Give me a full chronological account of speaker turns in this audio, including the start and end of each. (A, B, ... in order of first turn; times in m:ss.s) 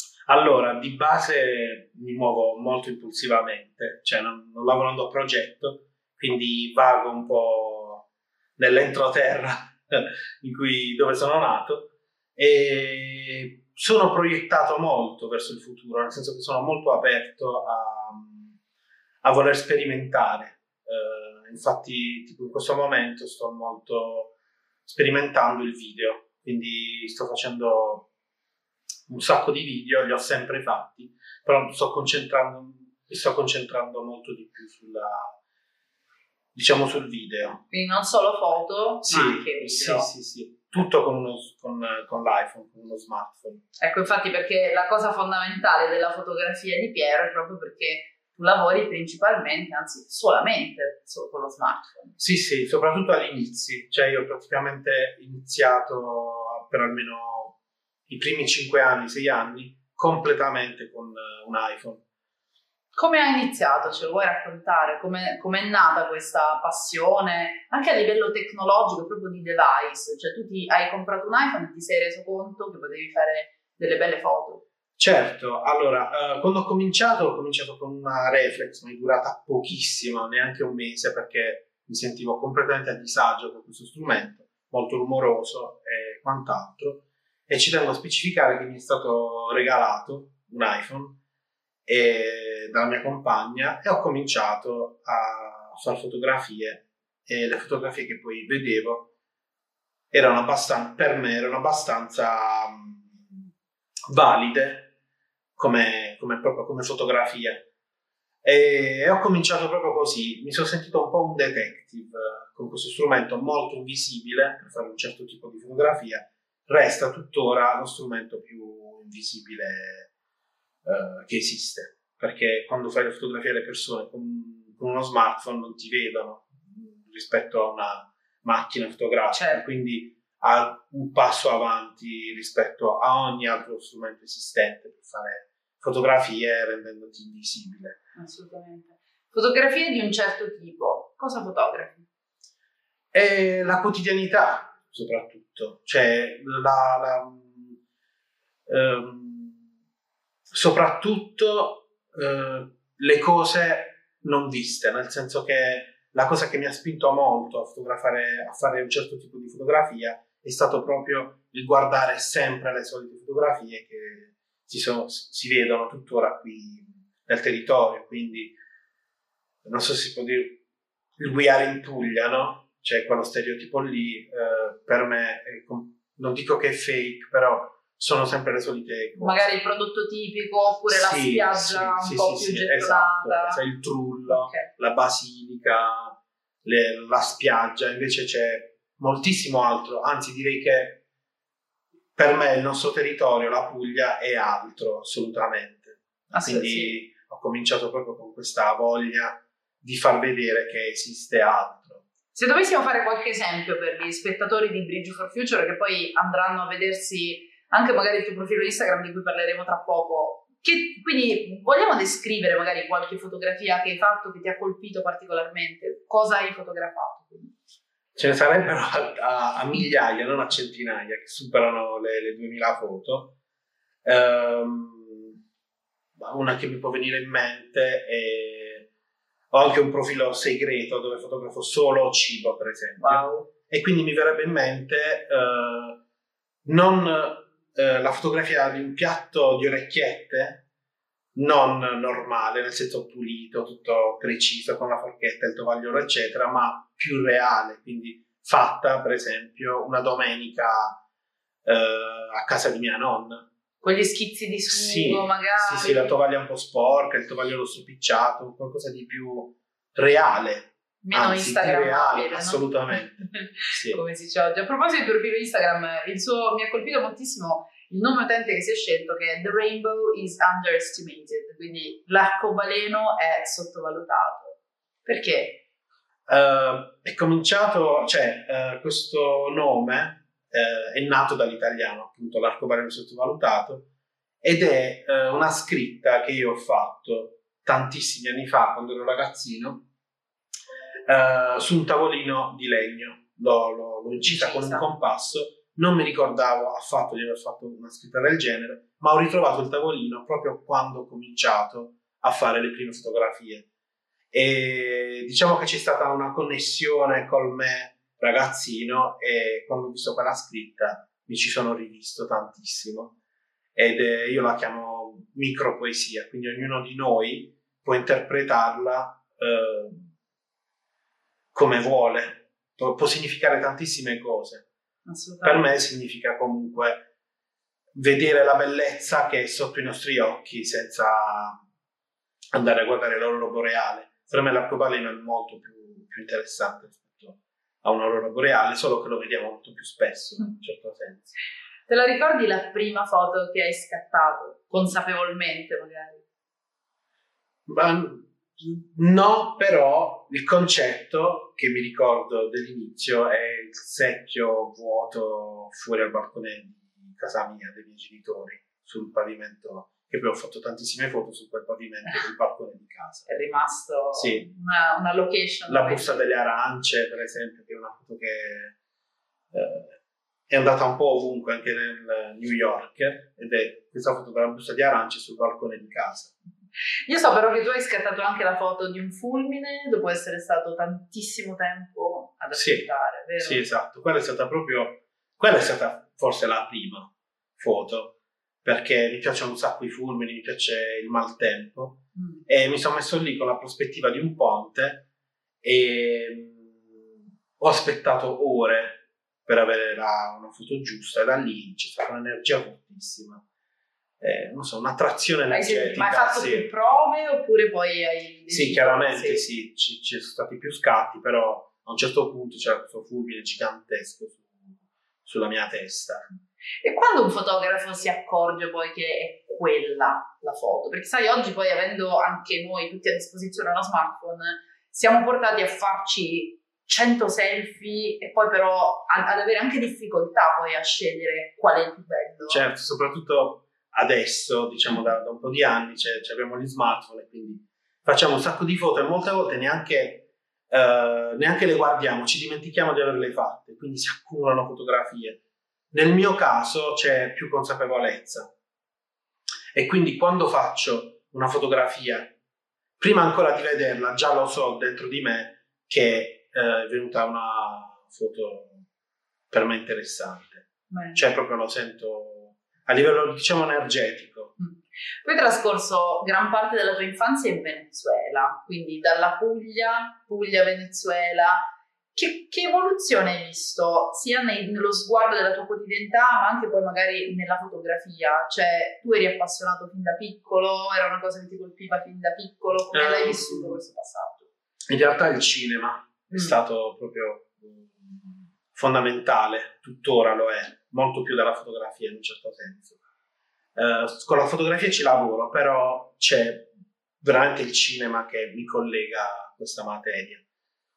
0:00.3-0:08.1 A
0:08.6-0:18.6 A
0:19.2-0:24.3 A
0:24.9-0:28.1 A
0:29.1-0:35.4 A
0:36.6-0:37.6 A
0:37.7-0:40.1 B
0:39.0-0:43.6 A
0:43.8-0:52.2 B
0:52.2-0:57.6 A
0:58.1-1:02.0 A
1:02.9-1:14.6 B
1:15.0-1:31.2 A
1:31.9-1:39.1 A
1:40.1-1:43.5 A
1:44.1-1:44.9 A
1:45.6-1:47.6 A
1:48.4-2:00.1 A
2:00.8-2:18.0 A
2:09.3-2:09.6 B
2:18.2-2:22.0 B
2:23.1-2:27.8 A
2:28.7-2:29.6 A
2:30.5-2:48.6 A
2:49.6-2:50.6 A
2:51.2-2:59.5 A
2:59.2-3:03.6 B
3:00.9-3:11.0 A
3:04.3-3:04.7 B
3:12.2-3:22.0 A
3:16.3-3:16.9 B
3:22.3-3:37.5 B
3:38.2-3:43.4 A
3:44.0-3:45.4 A
3:46.2-3:48.9 A
3:49.5-3:56.0 A
3:53.0-3:53.5 B
3:56.6-4:00.6 A
4:01.4-4:11.0 A
4:11.6-4:13.5 A
4:13.8-4:16.1 B
4:14.7-4:24.0 A
4:21.0-4:35.6 B
4:36.3-4:43.9 A
4:44.4-4:49.8 A
4:51.1-5:03.7 A
4:54.2-4:54.9 B
5:04.3-5:13.1 A
5:13.8-5:20.1 A
5:21.5-5:24.7 A
5:25.1-5:25.7 B
5:25.4-5:27.0 A
5:27.9-5:31.6 A
5:32.5-5:41.3 A
5:41.9-5:46.2 B
5:47.7-6:03.3 A
6:03.3-6:06.1 B
6:04.1-6:04.5 A
6:05.7-6:08.8 A
6:09.5-6:10.0 A
6:10.5-6:16.3 A
6:17.1-6:23.7 B
6:22.5-6:35.1 A
6:32.2-6:32.4 B
6:35.6-6:37.1 A
6:37.6-6:43.4 A
6:44.2-6:46.7 A
6:45.5-6:49.4 B
6:48.5-6:56.3 A
6:56.8-7:12.6 B
7:12.5-7:28.5 A
7:29.7-7:32.4 A
7:33.0-7:38.8 A
7:39.5-7:44.5 A
7:40.9-7:41.2 B
7:44.6-8:04.5 B
8:02.9-8:03.8 A
8:04.9-8:13.0 A
8:06.3-8:06.6 B
8:13.8-8:20.4 A